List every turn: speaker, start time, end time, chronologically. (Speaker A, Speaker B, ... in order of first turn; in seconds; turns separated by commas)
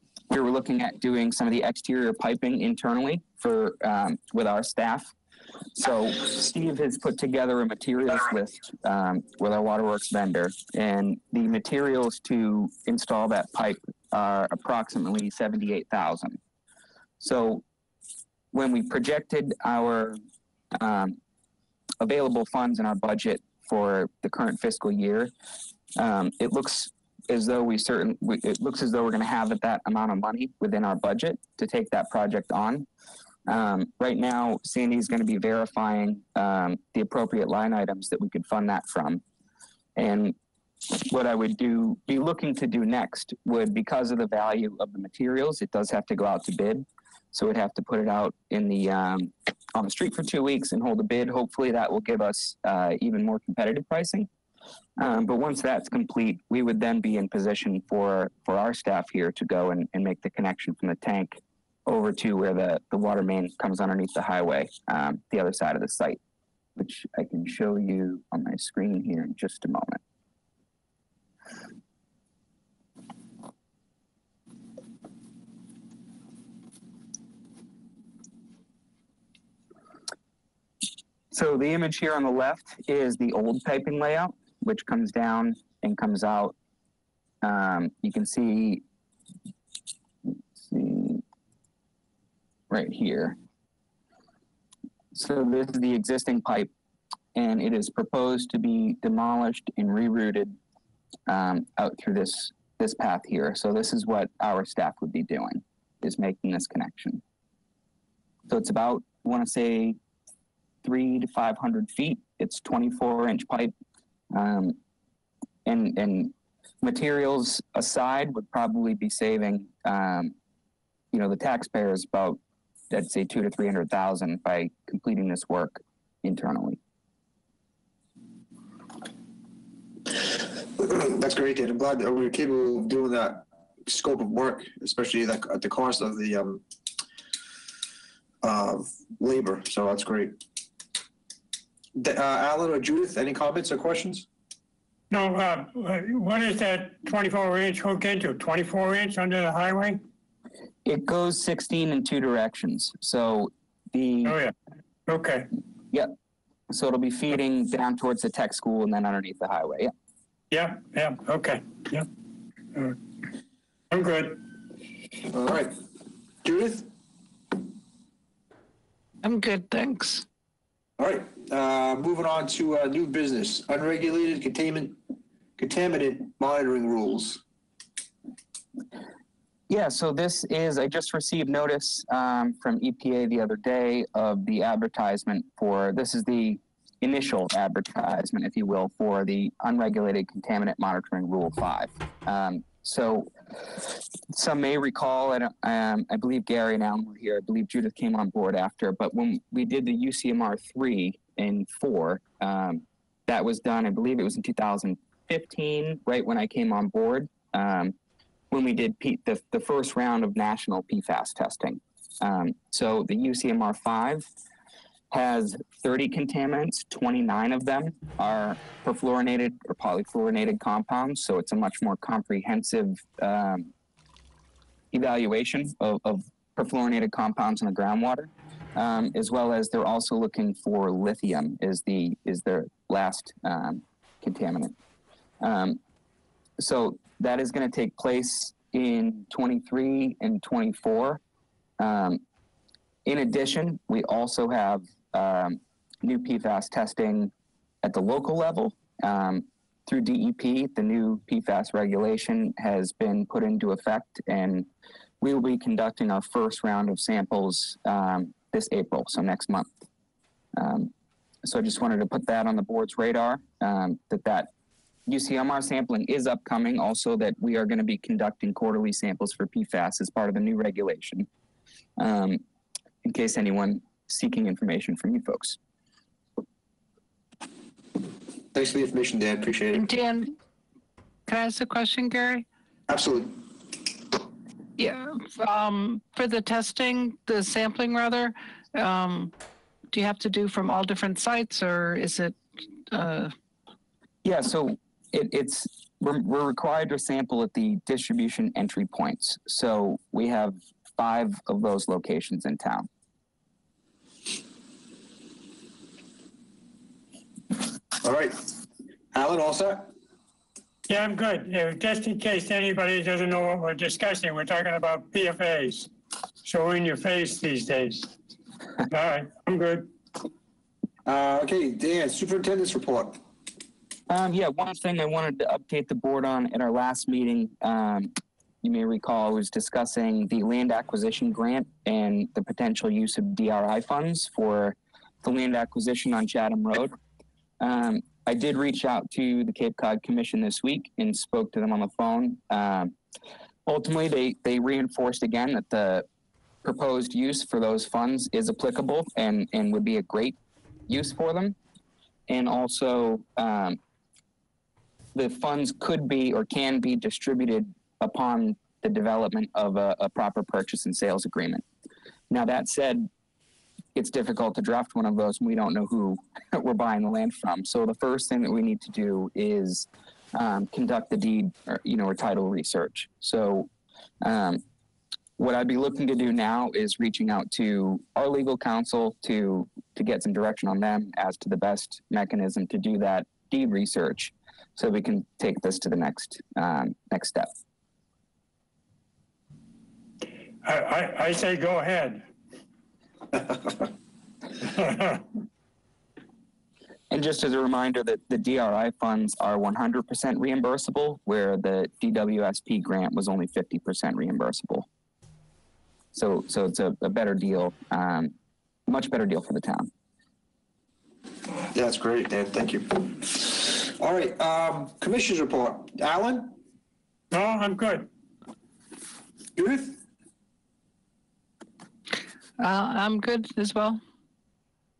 Speaker A: 0.3-5.1, Speaker A: 5.7-16.4, Speaker A: 17.2-17.6, Speaker A: 18.5-20.2, Speaker A: 20.8-21.2, Speaker A: 22.0-25.3, Speaker A: 26.0-32.9, Speaker A: 33.5-39.2, Speaker A: 40.0-40.3, Speaker A: 40.9-54.3, Speaker A: 55.0-66.2, Speaker A: 66.8-70.0, Speaker A: 81.3-86.5, Speaker A: 87.4-88.8, Speaker A: 90.6-91.2, Speaker A: 92.7-93.4, Speaker A: 95.1-96.7, Speaker A: 97.3-100.5, Speaker A: 101.3-107.2, Speaker A: 108.5-110.0, Speaker A: 110.8-113.7, Speaker A: 114.3-114.8, Speaker A: 115.7-120.3, Speaker A: 121.1-122.4, Speaker A: 122.9-126.8, Speaker B: 130.8-136.6, Speaker B: 138.4-140.4, Speaker B: 141.9-144.2, Speaker C: 145.1-150.0, Speaker A: 150.8-154.4, Speaker C: 154.2-154.5, Speaker C: 155.1-155.5, Speaker A: 156.7-159.9, Speaker C: 160.5-162.1, Speaker C: 163.9-164.4, Speaker B: 165.3-165.8, Speaker B: 166.4-166.9, Speaker D: 169.2-170.2, Speaker B: 171.0-175.0, Speaker B: 175.6-177.4, Speaker A: 179.7-207.9, Speaker A: 208.5-214.2, Speaker A: 215.1-223.7, Speaker A: 224.9-234.7, Speaker A: 235.4-235.8, Speaker A: 236.6-241.2, Speaker A: 241.8-242.2, Speaker A: 243.1-247.3, Speaker A: 247.8-254.7, Speaker A: 255.2-259.7, Speaker A: 260.6-260.9, Speaker A: 261.4-264.5, Speaker A: 265.1-271.3, Speaker A: 272.0-272.4, Speaker A: 273.0-275.6, Speaker B: 278.5-279.9, Speaker D: 279.7-280.3, Speaker D: 281.3-282.4, Speaker B: 282.9-283.4, Speaker D: 284.8-289.3, Speaker D: 289.9-293.3, Speaker A: 294.2-302.9, Speaker B: 308.0-308.4, Speaker B: 309.1-309.9, Speaker C: 310.9-315.9, Speaker C: 316.4-318.1, Speaker C: 318.9-319.9, Speaker B: 321.1-323.2, Speaker A: 324.1-336.9, Speaker A: 337.6-342.9, Speaker A: 343.6-346.1, Speaker A: 346.6-350.4, Speaker A: 350.9-351.6, Speaker A: 352.3-353.8, Speaker A: 355.1-361.6, Speaker A: 362.3-363.1, Speaker A: 363.9-373.7, Speaker A: 374.2-374.6, Speaker A: 375.4-387.5, Speaker C: 390.6-392.3, Speaker C: 394.6-395.2, Speaker A: 397.1-404.9, Speaker A: 406.1-408.3, Speaker A: 408.9-409.9, Speaker B: 411.7-416.6, Speaker C: 417.3-418.1, Speaker B: 419.6-420.0, Speaker D: 422.6-424.0